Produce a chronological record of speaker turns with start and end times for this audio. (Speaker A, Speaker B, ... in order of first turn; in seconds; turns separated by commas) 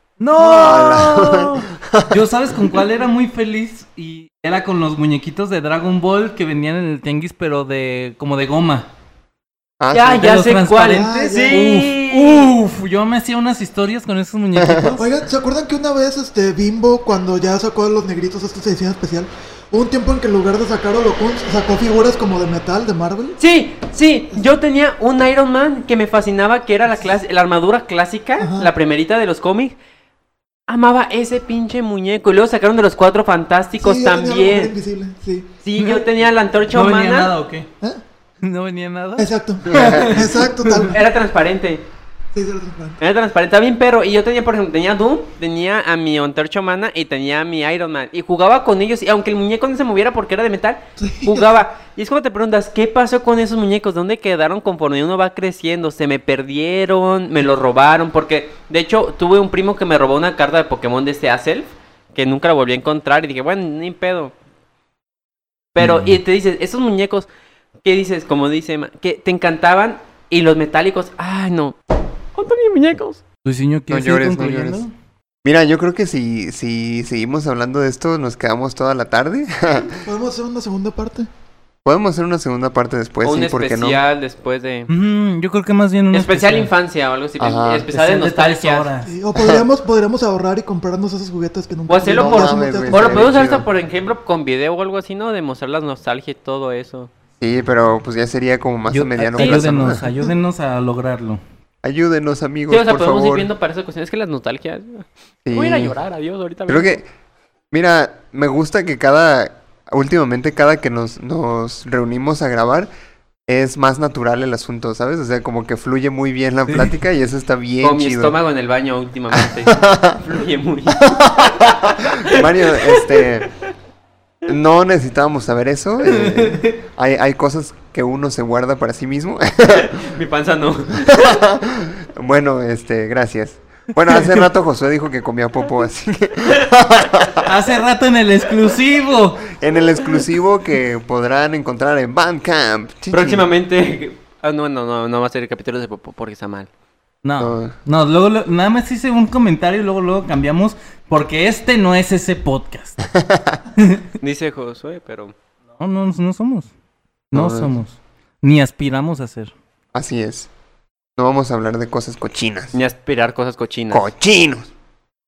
Speaker A: 0.2-8.9, Speaker B: 0.4-2.8, Speaker B: 9.8-10.4, Speaker C: 9.9-12.5, Speaker A: 10.2-15.0, Speaker D: 10.8-11.6, Speaker B: 14.6-15.0, Speaker D: 15.0-23.4, Speaker C: 23.4-29.8, Speaker D: 28.4-28.7, Speaker C: 30.7-34.7, Speaker D: 33.8-35.5, Speaker C: 35.6-37.3, Speaker A: 35.8-36.1, Speaker A: 36.7-37.7, Speaker A: 38.4-40.3, Speaker D: 39.2-41.1, Speaker B: 39.6-40.4, Speaker C: 40.7-41.8, Speaker D: 42.3-43.0, Speaker C: 43.0-64.3, Speaker D: 51.0-51.6, Speaker C: 65.7-67.3, Speaker A: 65.8-66.2, Speaker C: 67.8-71.8, Speaker C: 72.3-73.2, Speaker A: 73.4-74.9, Speaker B: 73.9-74.8, Speaker B: 75.4-80.0, Speaker D: 80.0-81.3, Speaker B: 81.8-84.0, Speaker C: 83.2-84.9, Speaker A: 84.9-86.7, Speaker C: 86.1-88.9, Speaker B: 87.4-87.9, Speaker A: 87.9-89.1, Speaker D: 89.0-93.3, Speaker B: 89.3-89.6, Speaker C: 91.9-97.1, Speaker B: 92.1-93.7, Speaker B: 97.4-100.1, Speaker A: 98.9-101.4, Speaker C: 99.4-99.6, Speaker B: 101.8-103.5, Speaker C: 102.7-107.0, Speaker B: 105.4-105.9, Speaker B: 106.7-107.0, Speaker B: 107.7-112.9, Speaker B: 113.5-118.3, Speaker A: 116.7-116.9, Speaker C: 117.8-123.1, Speaker B: 119.3-120.2, Speaker B: 120.9-123.5, Speaker B: 124.5-130.1, Speaker C: 129.7-131.5, Speaker B: 131.0-137.5, Speaker A: 137.4-139.5, Speaker B: 139.5-143.5, Speaker C: 143.1-146.7, Speaker A: 147.2-153.0, Speaker B: 147.4-147.7, Speaker B: 153.0-153.6, Speaker A: 153.8-154.0, Speaker C: 154.2-155.3, Speaker A: 155.8-156.7, Speaker A: 157.3-159.5, Speaker B: 157.3-157.7, Speaker B: 159.9-160.5, Speaker B: 161.2-162.8, Speaker C: 162.7-164.1, Speaker B: 163.9-164.7